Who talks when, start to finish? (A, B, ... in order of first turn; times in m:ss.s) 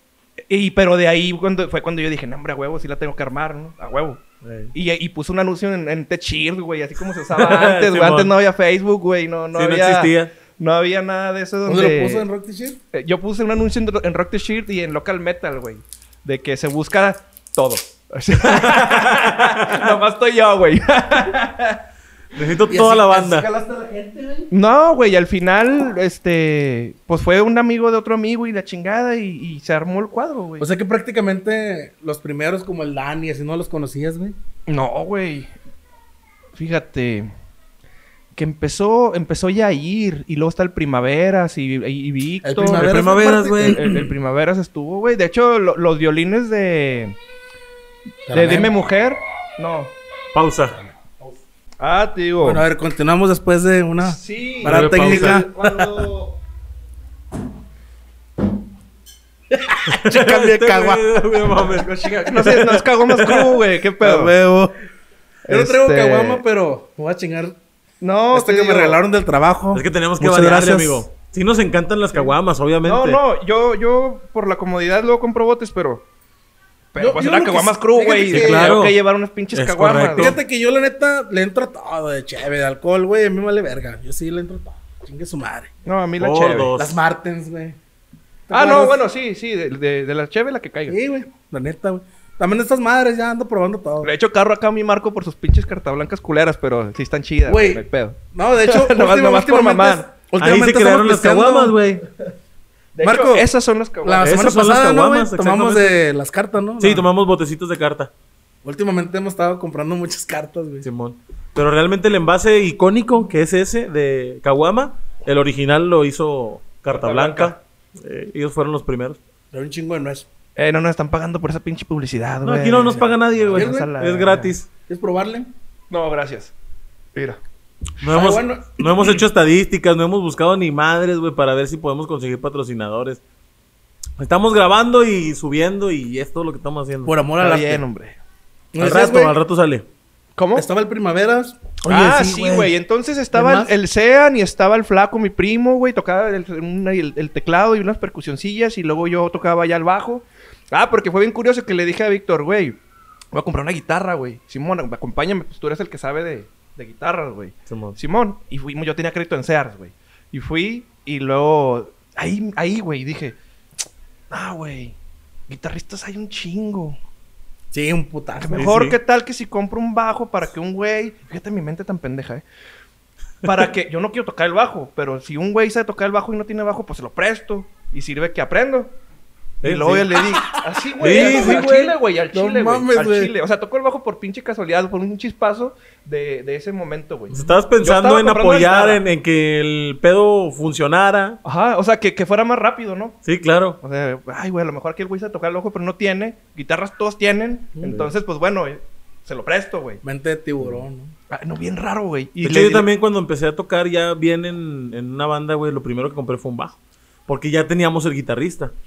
0:00.5-0:04.2 A
0:04.4-0:04.7 B
0:04.7-0:12.3 A
0:07.3-0:08.3 B
0:09.5-0:10.3 B
0:11.7-0:12.8 C
0:12.9-0:21.8 A
0:18.7-0:19.7 B
0:22.4-0:23.5 B
0:22.7-0:24.5 C
0:24.5-0:30.7 A
0:30.6-0:34.4 C
0:34.7-0:35.5 A
0:36.6-0:37.3 A
0:38.4-0:47.2 A
0:42.4-0:43.9 C
0:42.6-0:44.0 B
0:48.3-0:48.7 C
0:48.3-0:49.9 A
0:50.3-0:50.8 B
0:51.8-0:52.6 A
0:52.4-0:56.0 C
0:54.0-0:56.4 A
0:54.6-0:55.5 B
0:59.5-1:01.2 C
0:59.9-1:03.6 B
1:01.7-1:04.3 A
1:04.0-1:04.7 C
1:05.5-1:06.4 A
1:05.5-1:07.6 C
1:08.0-1:09.0 A
1:08.3-1:11.1 C
1:09.7-1:13.2 B
1:12.8-1:16.0 A
1:16.9-1:20.4 A
1:17.0-1:18.8 C
1:18.3-1:19.0 B
1:19.5-1:20.4 B
1:20.2-1:25.7 C
1:25.8-1:26.7 A
1:26.2-1:27.0 B
1:26.8-1:27.8 C
1:28.5-1:29.0 C
1:28.5-1:31.0 A
1:30.9-1:34.1 C
1:34.0-1:40.1 A
1:37.5-1:41.8 C
1:40.4-1:42.0 B
1:43.0-1:44.4 A
1:43.0-1:43.5 C
1:44.0-1:47.0 C
1:44.2-1:46.0 B
1:46.8-1:48.1 B
1:48.6-1:50.9 C
1:50.8-1:59.2 B
1:56.9-1:57.6 A
1:59.5-2:00.3 C
2:00.6-2:04.5 A
2:02.4-2:04.7 B
2:03.5-2:03.9 C
2:04.9-2:05.5 C
2:05.9-2:06.5 A
2:07.2-2:07.4 A
2:08.0-2:13.2 B
2:08.1-2:08.8 C
2:14.2-2:17.1 B
2:17.0-2:17.8 C
2:17.4-2:18.2 A
2:18.7-2:19.4 C
2:18.8-2:19.8 B
2:20.4-2:20.6 A
2:20.6-2:22.7 C
2:21.8-2:32.8 A
2:23.3-2:23.7 C
2:33.3-2:43.4 A
2:37.7-2:38.0 B
2:44.3-2:45.0 A
2:45.5-2:47.0 A
2:47.7-2:48.7 C
2:48.4-2:52.4 A
2:48.6-2:49.0 B
2:53.4-2:58.9 A
2:59.6-3:09.0 A
2:59.6-3:00.2 B
3:00.4-3:01.8 C
3:01.0-3:02.0 B
3:02.3-3:03.3 C
3:07.3-3:11.4 B
3:11.4-3:13.2 A
3:13.2-3:13.8 B
3:13.8-3:20.0 A
3:17.8-3:18.1 B
3:20.0-3:21.1 C
3:21.3-3:22.9 A
3:22.4-3:28.7 B